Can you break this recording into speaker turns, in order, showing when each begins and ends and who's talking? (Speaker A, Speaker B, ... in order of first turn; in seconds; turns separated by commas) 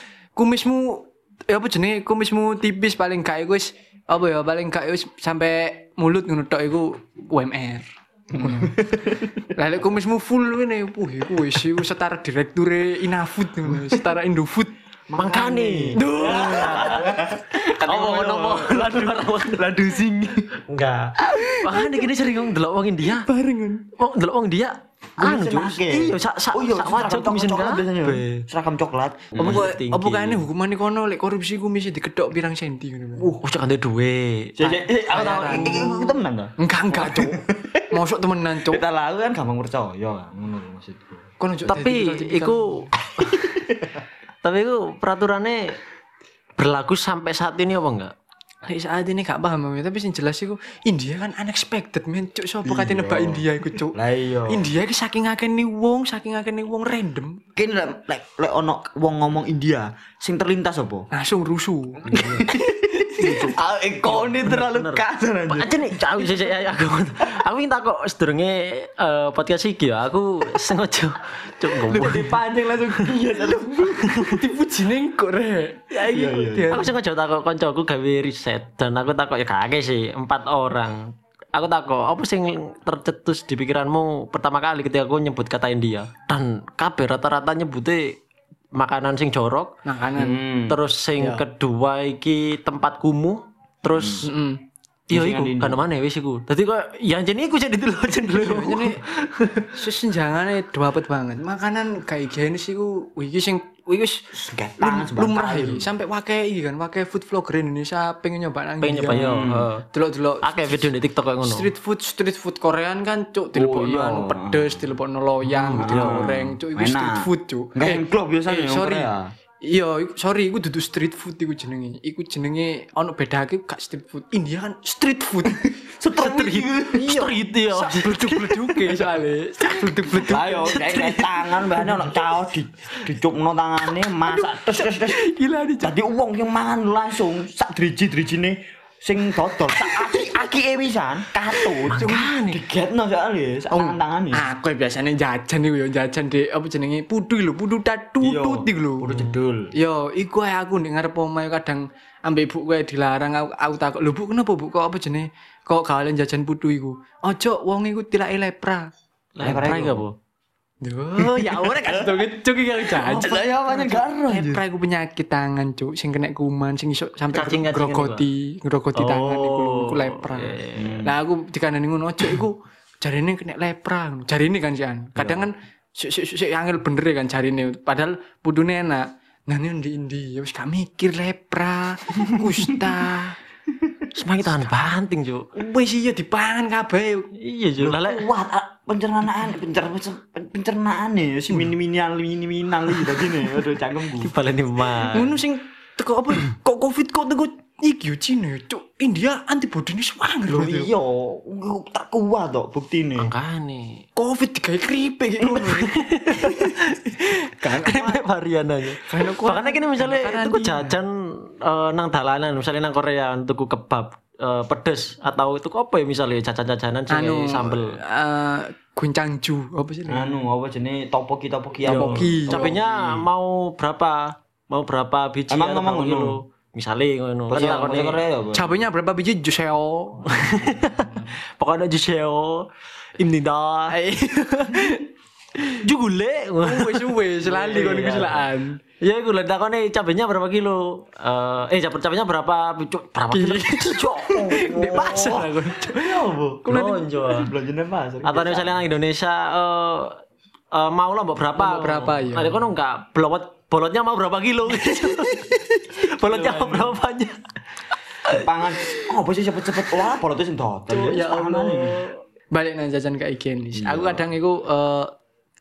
Speaker A: 0.4-8.8, Speaker B: 8.3-9.4, Speaker A: 9.5-14.7, Speaker B: 15.1-20.6, Speaker C: 15.2-19.7, Speaker A: 16.0-17.1, Speaker C: 20.7-23.3, Speaker A: 21.3-22.1, Speaker A: 23.1-23.9, Speaker C: 24.0-28.4, Speaker B: 25.2-29.7, Speaker C: 29.4-30.4, Speaker A: 29.4-33.3, Speaker C: 33.2-36.0, Speaker B: 34.6-37.9, Speaker A: 34.7-36.0, Speaker A: 36.6-38.8, Speaker B: 38.6-41.2, Speaker A: 41.4-42.9, Speaker C: 41.7-43.5, Speaker B: 43.2-43.9, Speaker C: 44.4-45.8, Speaker C: 46.6-48.1, Speaker A: 48.6-54.0, Speaker B: 52.6-54.7, Speaker A: 54.5-57.4, Speaker B: 57.6-61.1, Speaker A: 61.1-62.5, Speaker C: 62.1-62.5, Speaker B: 62.1-66.5, Speaker A: 63.0-63.4, Speaker C: 63.2-63.5, Speaker C: 64.1-72.4, Speaker B: 71.9-74.2, Speaker C: 74.0-74.3, Speaker A: 74.1-76.9, Speaker B: 76.0-76.9, Speaker C: 76.7-88.2, Speaker C: 88.7-89.7, Speaker A: 89.8-90.4, Speaker B: 90.2-90.8, Speaker C: 90.7-94.3, Speaker B: 94.0-94.3, Speaker A: 94.2-94.6, Speaker B: 95.1-95.8, Speaker C: 95.1-99.7, Speaker A: 98.3-99.0, Speaker A: 99.7-110.9, Speaker B: 104.3-105.9, Speaker C: 108.8-109.8, Speaker B: 109.1-109.7, Speaker C: 110.4-111.7, Speaker A: 111.4-119.1, Speaker B: 113.5-114.8, Speaker C: 115.5-116.2, Speaker B: 115.8-119.3, Speaker A: 119.6-130.9, Speaker B: 125.5-127.2, Speaker C: 126.2-129.1, Speaker C: 129.6-131.4, Speaker B: 130.2-135.2, Speaker A: 134.3-135.9, Speaker B: 135.8-144.4, Speaker A: 139.7-140.4, Speaker A: 141.6-142.3, Speaker C: 141.9-142.6, Speaker A: 143.7-149.1, Speaker B: 148.2-149.7, Speaker A: 149.8-158.9, Speaker C: 159.4-160.2, Speaker B: 159.4-160.1, Speaker A: 160.8-183.3, Speaker B: 161.2-162.3, Speaker B: 162.8-164.6, Speaker C: 167.3-168.2, Speaker C: 168.9-171.0, Speaker B: 170.8-171.2, Speaker C: 184.2-185.5, Speaker A: 185.6-187.3, Speaker C: 187.4-188.3, Speaker B: 187.8-194.3, Speaker C: 194.2-195.4, Speaker A: 195.1-200.9, Speaker B: 200.5-203.3, Speaker C: 203.2-204.0, Speaker A: 204.2-208.2, Speaker C: 205.5-218.0, Speaker A: 209.0-211.0, Speaker A: 217.1-220.3, Speaker B: 220.1-223.3, Speaker A: 221.8-222.8, Speaker C: 221.9-228.2, Speaker B: 225.5-226.4, Speaker B: 227.5-228.8, Speaker A: 228.5-230.8, Speaker C: 230.3-233.9, Speaker A: 233.9-235.1, Speaker C: 235.8-238.5, Speaker A: 236.6-238.8, Speaker C: 239.0-245.0, Speaker A: 243.3-247.1, Speaker B: 244.2-246.7, Speaker C: 246.7-247.5, Speaker B: 247.2-248.8, Speaker C: 248.2-250.2, Speaker C: 250.7-257.4, Speaker A: 251.6-252.6, Speaker A: 254.8-256.0, Speaker B: 256.2-256.9, Speaker B: 258.3-262.0, Speaker A: 260.9-265.1, Speaker B: 263.8-264.2